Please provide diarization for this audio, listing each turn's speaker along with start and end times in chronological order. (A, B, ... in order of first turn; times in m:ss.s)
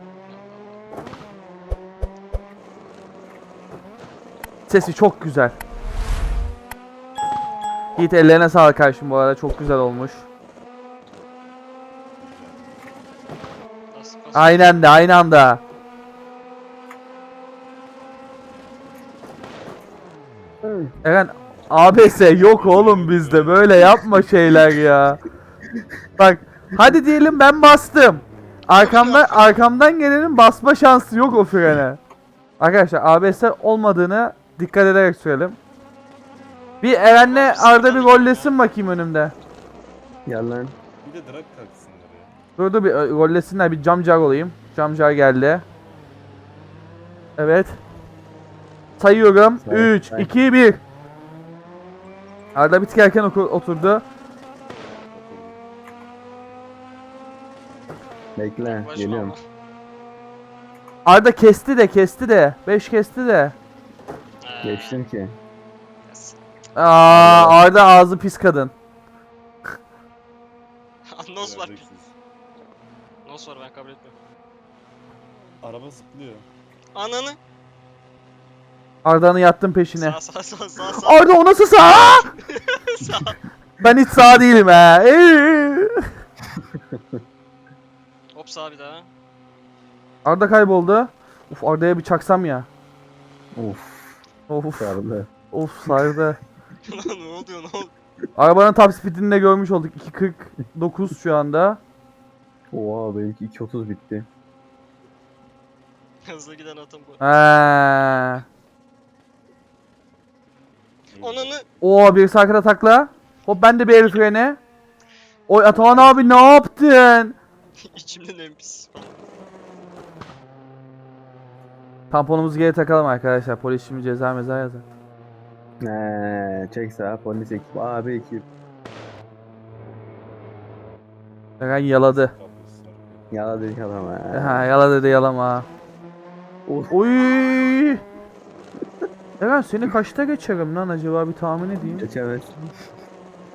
0:00.3-0:00.8 A
0:04.7-0:05.6 B
0:08.0-0:10.2 B
0:12.2-0:12.9 C
0:13.9-0:14.9 A
0:14.3-0:15.6 B
0:20.6-0:20.9 D
0:21.0-0:25.2 B
0:22.4-0:24.0 C
0:26.2-0:32.0 B
0:28.8-0:29.4 A
0:32.6-0:35.6 B
0:36.8-0:39.3 B
0:37.1-0:38.5 A
0:40.2-0:40.7 D
0:41.0-0:42.3 C
0:42.6-0:45.6 B
0:47.4-0:47.8 B
0:49.0-0:50.8 B
0:49.6-0:50.3 D
0:52.5-0:54.0 B
0:55.1-0:55.6 C
0:58.4-0:59.3 D
0:58.6-0:59.4 A
1:01.0-1:03.5 B
1:04.4-1:05.0 A
1:04.6-1:05.3 D
1:06.1-1:06.4 A
1:06.7-1:08.7 B
1:07.1-1:07.6 D
1:11.1-1:11.9 A
1:11.4-1:12.1 C
1:13.2-1:14.1 A
1:15.6-1:16.5 C
1:16.9-1:17.4 A
1:19.0-1:20.2 B
1:19.9-1:21.3 A
1:21.0-1:22.3 B
1:21.9-1:23.4 A
1:23.8-1:26.1 B
1:28.3-1:29.1 A
1:30.2-1:32.7 B
1:33.5-1:34.2 D
1:34.5-1:35.0 B
1:34.8-1:35.3 D
1:35.5-1:36.4 B
1:36.8-1:37.9 A
1:38.4-1:41.8 B
1:42.7-1:44.3 D
1:46.2-1:47.2 A
1:47.2-1:48.4 B
1:51.1-1:51.6 C
1:51.2-1:51.6 A
1:51.8-1:54.6 B
1:55.5-1:57.3 B
1:57.8-1:59.2 A
2:02.1-2:04.8 B
2:05.8-2:08.4 D
2:11.6-2:12.3 B
2:12.0-2:13.3 C
2:13.3-2:14.7 D
2:14.3-2:15.6 B
2:16.7-2:16.9 D
2:16.9-2:18.0 B
2:19.4-2:22.0 B
2:21.9-2:22.7 D